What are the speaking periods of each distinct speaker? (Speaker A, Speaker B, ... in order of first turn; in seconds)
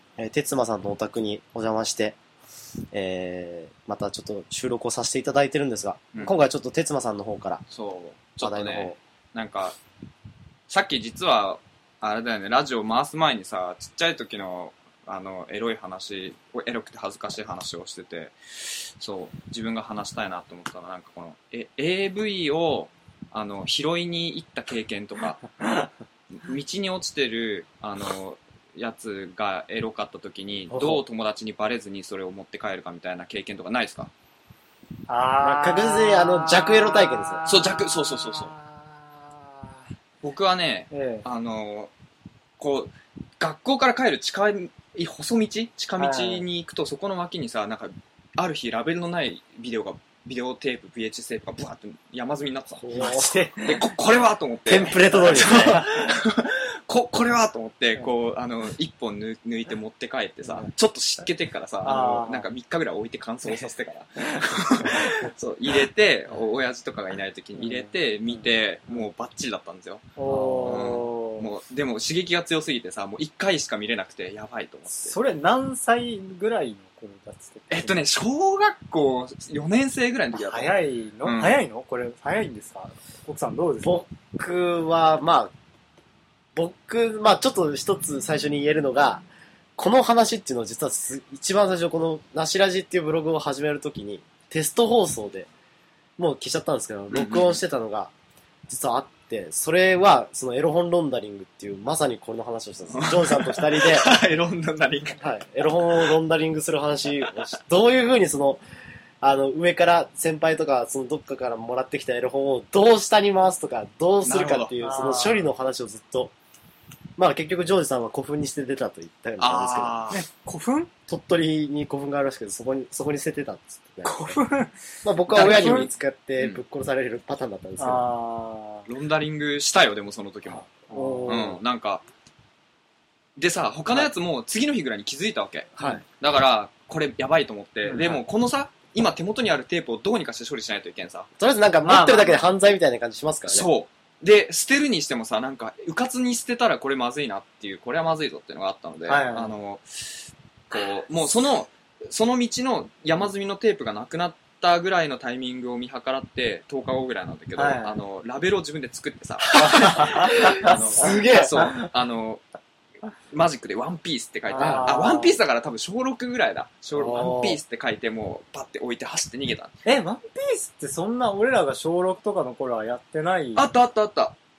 Speaker A: 0.2-2.2, 2.9-7.6, 8.4-9.0, 35.4-37.4, 52.7-53.5, 54.7-55.8, 70.2-71.0, 83.8-85.5, 86.5-89.2, 89.8-95.5, 96.2-98.1, 98.7-104.2, 105.2-108.6, 109.2-116.3, 117.2-120.0, 121.1-124.4, 125.0-128.1, 130.9-131.6, 135.8-136.0, 141.4-143.7, 159.5-161.7, 164.6-165.1, 166.9-167.6
Speaker B: 7.7-9.8, 10.7-25.4, 26.3-34.1, 37.5-38.5, 40.2-41.9, 42.6-75.1, 77.7-81.6, 97.1-97.6, 102.9-105.2, 114.2-114.7, 119.4-120.2, 125.3-126.6, 128.9-130.7, 131.2-132.0, 133.3-141.3, 143.5-162.4, 163.3-169.7, 173.5-174.3
Speaker C: 30.7-31.0, 35.1-39.7, 40.9-41.2, 46.0-46.4, 52.9-53.9, 55.1-55.9, 60.4-60.7, 61.8-62.5, 67.5-68.3, 70.2-71.5, 74.9-78.0, 80.3-84.0, 114.8-115.5, 120.1-120.9, 124.0-124.7, 125.3-125.9, 127.8-128.9, 130.7-131.4, 137.8-138.2, 141.8-142.5, 149.1-149.5, 157.5-158.0, 159.6-161.8, 164.4-165.4, 169.8-173.7